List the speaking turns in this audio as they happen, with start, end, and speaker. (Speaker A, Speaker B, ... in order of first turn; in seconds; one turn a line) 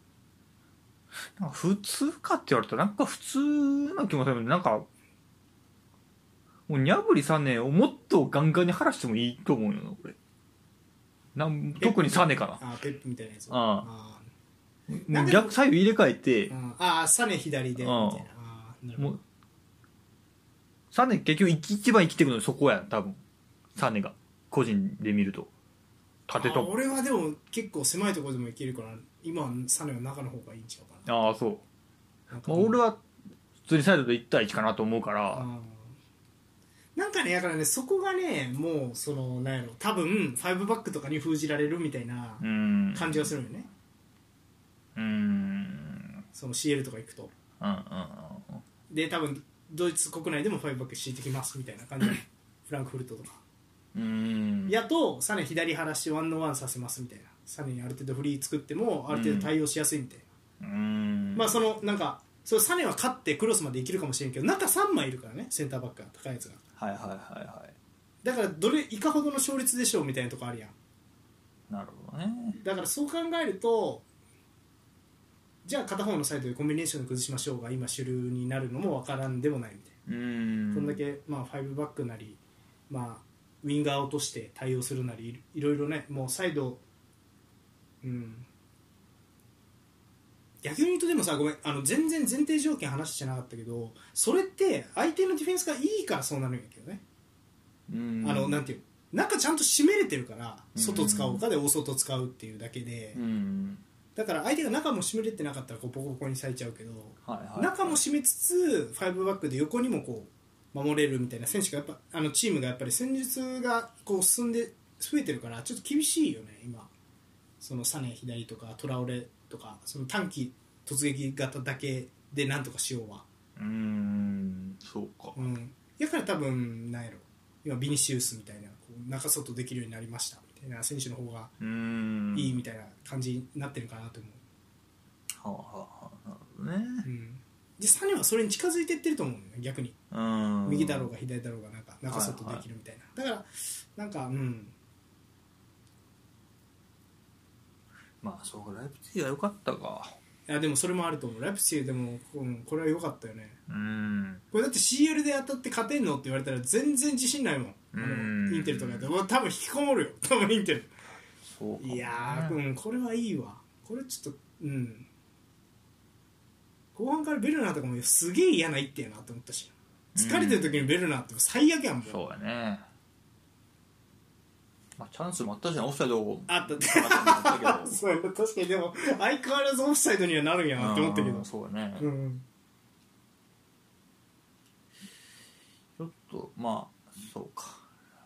Speaker A: 1.4-4.9
Speaker A: 6.7-10.2
Speaker A: 11.3-12.6
Speaker B: 11.8-14.3
Speaker A: 13.5-13.9
Speaker A: 14.9-16.5
Speaker B: 15.1-15.6
Speaker B: 16.5-19.2
Speaker A: 17.8-18.3
Speaker A: 20.9-23.2
Speaker A: 23.8-25.5
Speaker A: 26.3-26.7
Speaker B: 26.4-31.1
Speaker A: 31.1-31.6
Speaker B: 32.3-32.8
Speaker A: 32.5-33.0
Speaker A: 33.6-35.5
Speaker B: 35.3-36.0
Speaker B: 37.0-42.4
Speaker A: 42.4-43.3
Speaker B: 42.9-43.7
Speaker A: 45.0-46.2
Speaker B: 46.3-47.3
Speaker A: 47.6-48.6
Speaker B: 48.9-53.4
Speaker A: 53.9-54.8
Speaker B: 54.7-60.2
Speaker A: 59.1-59.5
Speaker A: 60.6-61.6
Speaker B: 61.4-66.6
Speaker A: 66.8-67.8
Speaker B: 68.2-70.7
Speaker A: 71.7-72.6
Speaker B: 72.6-74.0
Speaker B: 75.7-79.9
Speaker A: 80.1-81.0
Speaker B: 80.7-86.8
Speaker B: 88.0-88.5
Speaker B: 90.6-97.0
Speaker A: 97.9-98.6
Speaker B: 98.2-103.2
Speaker A: 100.8-101.4
Speaker A: 103.1-103.8
Speaker B: 104.2-116.9
Speaker A: 107.2-108.0
Speaker B: 117.6-123.3
Speaker A: 123.6-125.4
Speaker B: 125.3-131.5
Speaker A: 131.6-132.6
Speaker B: 132.3-134.4
Speaker A: 135.3-137.1
Speaker B: 137.0-140.0
Speaker A: 140.1-141.1
Speaker B: 140.7-144.7
Speaker A: 142.1-142.7
Speaker A: 148.2-150.2
Speaker B: 150.5-153.6
Speaker A: 153.7-154.4
Speaker B: 154.5-160.9
Speaker A: 157.9-159.1
Speaker A: 161.5-162.6
Speaker B: 161.8-165.1
Speaker B: 166.9-172.2
Speaker A: 170.2-170.8
Speaker A: 172.1-172.8
Speaker A: 175.0-178.0
Speaker B: 176.5-182.4
Speaker A: 180.8-182.1
Speaker A: 186.0-187.8